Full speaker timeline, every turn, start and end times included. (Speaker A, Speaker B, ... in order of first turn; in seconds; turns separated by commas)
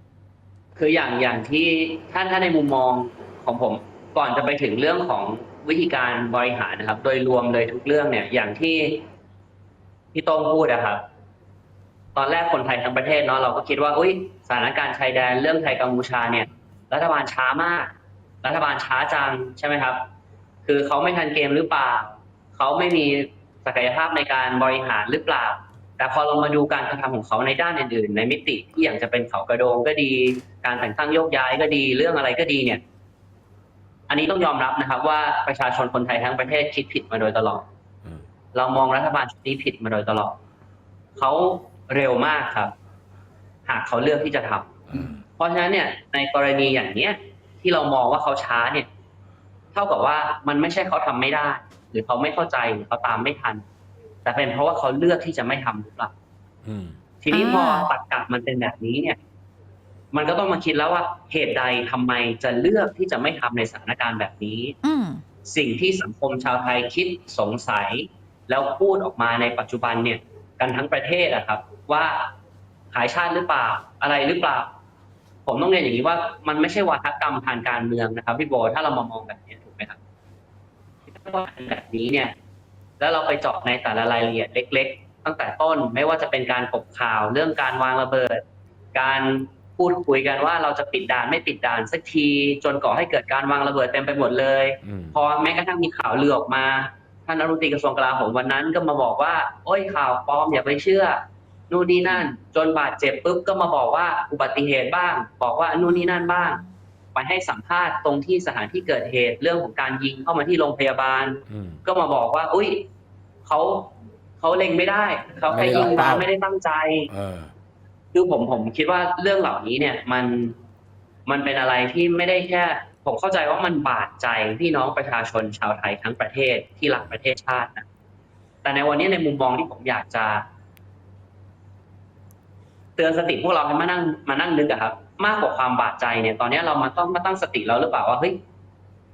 Speaker A: 0.8-9.1, Speaker A: 10.1-11.0, Speaker A: 12.2-20.1, Speaker A: 20.7-32.8, Speaker A: 34.1-37.7, Speaker A: 38.5-40.4, Speaker A: 41.2-42.7, Speaker A: 43.7-48.9, Speaker B: 44.9-45.2, Speaker A: 49.7-53.6, Speaker A: 54.2-56.1, Speaker B: 56.6-57.0, Speaker A: 57.2-59.2, Speaker C: 57.3-57.9, Speaker A: 60.1-64.8, Speaker C: 64.8-65.2, Speaker A: 65.5-72.3, Speaker A: 72.9-74.7, Speaker A: 75.5-80.0, Speaker A: 81.1-82.3, Speaker A: 83.0-88.4, Speaker A: 88.9-106.6, Speaker B: 94.8-95.2, Speaker C: 105.8-106.7, Speaker A: 107.2-112.9, Speaker B: 111.5-111.8, Speaker A: 113.5-117.1, Speaker B: 115.5-116.3, Speaker B: 117.1-117.5, Speaker A: 118.1-120.6, Speaker A: 121.3-127.9, Speaker A: 128.6-130.5, Speaker A: 133.0-138.4